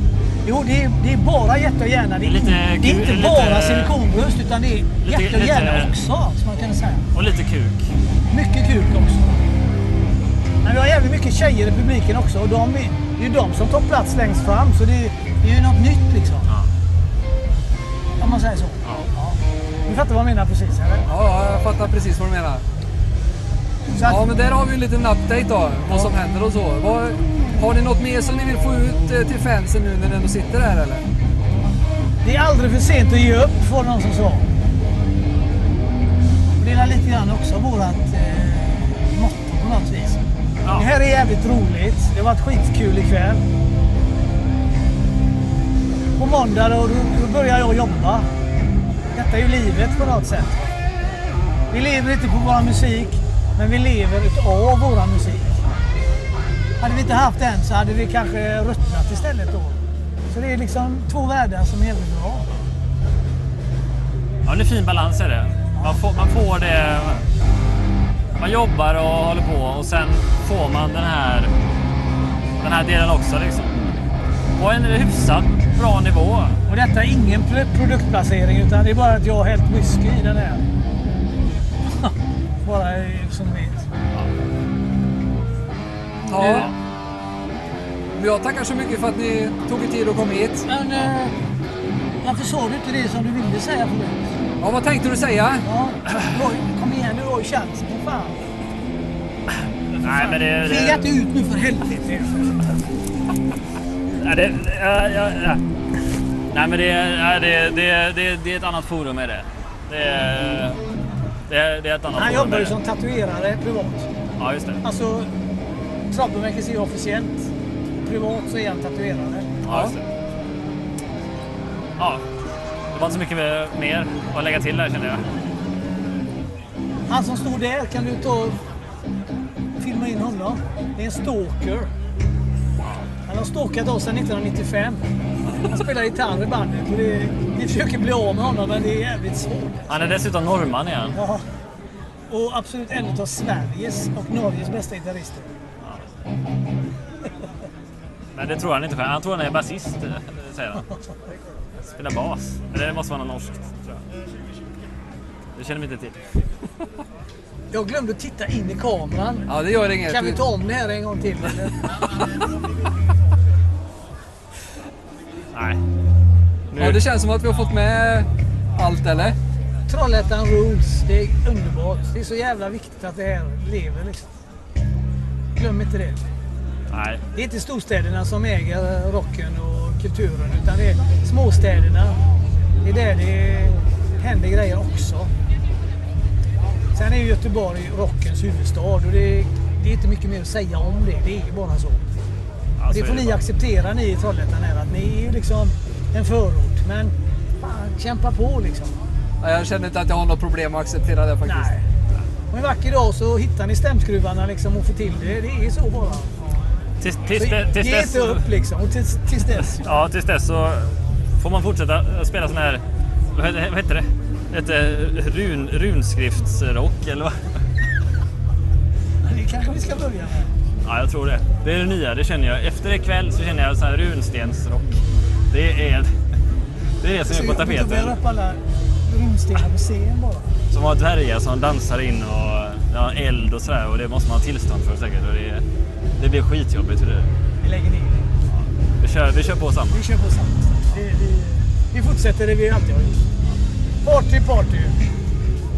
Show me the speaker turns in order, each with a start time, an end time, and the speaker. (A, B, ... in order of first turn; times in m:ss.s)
0:00.4-0:07.1 A
0:02.2-0:03.9 B
0:05.0-0:06.0 B
0:07.1-0:07.9 B
0:08.3-0:09.4 A
0:10.6-0:16.5 A
0:18.2-0:21.1 A
0:18.8-0:19.1 B
0:21.1-0:22.6 C
0:23.9-0:24.3 A
0:24.0-0:31.1 C
0:32.2-0:34.5 A
0:36.6-0:43.4 A
0:46.1-0:48.3 A
0:49.1-0:50.6 A
0:51.7-0:55.7 A
0:56.8-1:02.5 A
1:04.4-1:07.2 B
1:08.4-1:11.5 B
1:12.6-1:13.8 B
1:14.6-1:16.6 B
1:16.7-1:20.6 A
1:22.6-1:23.8 A
1:26.3-1:26.7 C
1:26.3-1:26.7 B
1:28.2-1:30.7 C
1:30.7-1:31.4 A
1:32.2-1:34.3 A
1:34.6-1:35.7 C
1:35.6-1:38.4 A
1:39.9-1:41.1 B
1:40.0-1:42.8 A
1:44.2-1:45.6 B
1:46.5-1:50.8 B
1:51.5-1:52.8 B
1:52.2-1:54.1 A
1:54.4-1:54.8 B
1:54.8-1:55.3 A
1:56.1-1:59.5 A
1:59.6-2:00.1 B
1:59.7-2:00.0 C
2:02.0-2:02.2 B
2:02.9-2:05.3 B
2:07.1-2:08.6 A
2:09.8-2:11.9 A
2:13.3-2:20.2 A
2:19.9-2:21.2 B
2:21.1-2:21.4 A
2:22.3-2:25.5 A
2:25.8-2:26.1 B
2:28.3-2:30.9 B
2:31.8-2:34.0 B
2:35.6-2:36.2 B
2:37.7-2:39.5 A
2:39.5-2:40.4 C
2:40.0-2:42.0 A
2:45.5-2:45.8 B
2:46.7-2:47.0 B
2:46.7-2:49.4 C
2:49.9-2:54.3 A
2:55.6-2:56.2 A
2:56.9-2:57.2 B
2:57.3-3:02.2 A
3:02.8-3:05.3 A
3:06.9-3:12.1 A
3:12.8-3:13.4 B
3:12.9-3:19.0 A
3:19.4-3:21.7 C
3:21.4-3:21.8 A
3:22.5-3:26.3 A
3:27.0-3:28.4 B
3:27.3-3:29.8 A
3:29.6-3:32.8 B
3:33.3-3:37.4 B
3:39.2-3:40.5 A
3:40.8-3:46.1 B
3:47.0-3:48.2 B
3:47.3-3:50.6 A
3:50.7-3:55.6 B
3:56.2-3:57.3 B
3:57.6-3:58.3 A
3:58.5-4:00.1 B
3:59.9-4:03.3 A
4:04.0-4:05.0 A